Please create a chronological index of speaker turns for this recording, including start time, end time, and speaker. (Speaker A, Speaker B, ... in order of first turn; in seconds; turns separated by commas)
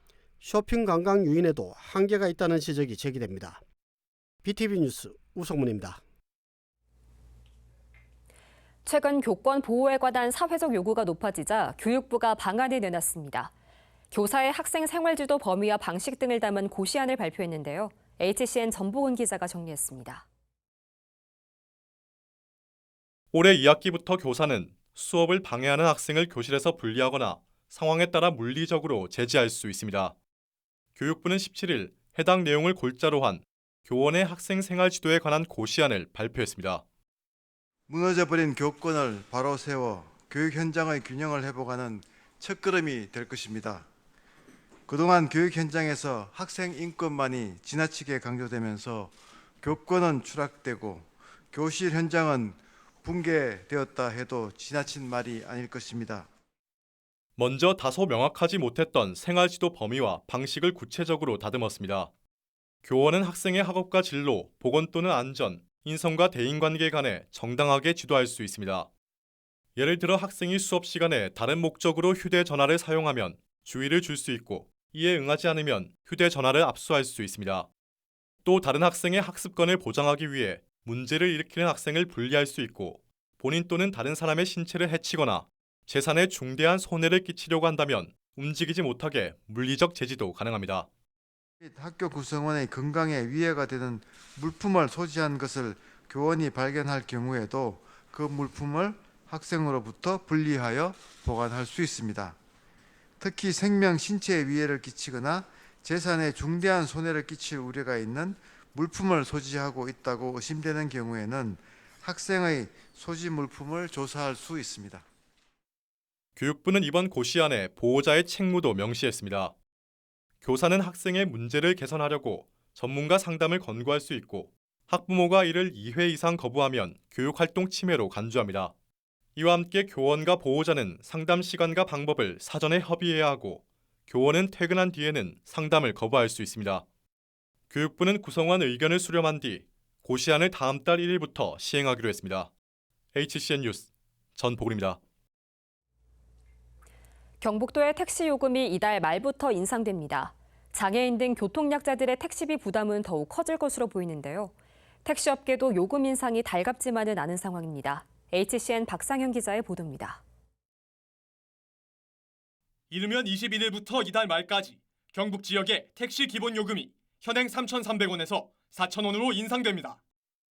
Speaker A: 0.4-3.6, Speaker A: 4.4-6.0, Speaker B: 8.8-13.5, Speaker B: 14.1-20.2, Speaker C: 23.3-30.1, Speaker C: 31.0-36.8, Speaker D: 37.9-43.9, Speaker D: 44.9-56.3, Speaker C: 57.4-62.1, Speaker C: 62.9-68.9, Speaker C: 69.8-77.7, Speaker C: 78.5-90.9, Speaker D: 91.6-102.4, Speaker D: 103.2-115.0, Speaker C: 116.4-119.5, Speaker C: 120.4-128.7, Speaker C: 129.4-136.8, Speaker C: 137.7-142.5, Speaker C: 143.1-145.0, Speaker B: 147.4-154.5, Speaker B: 155.0-160.2, Speaker E: 162.9-170.0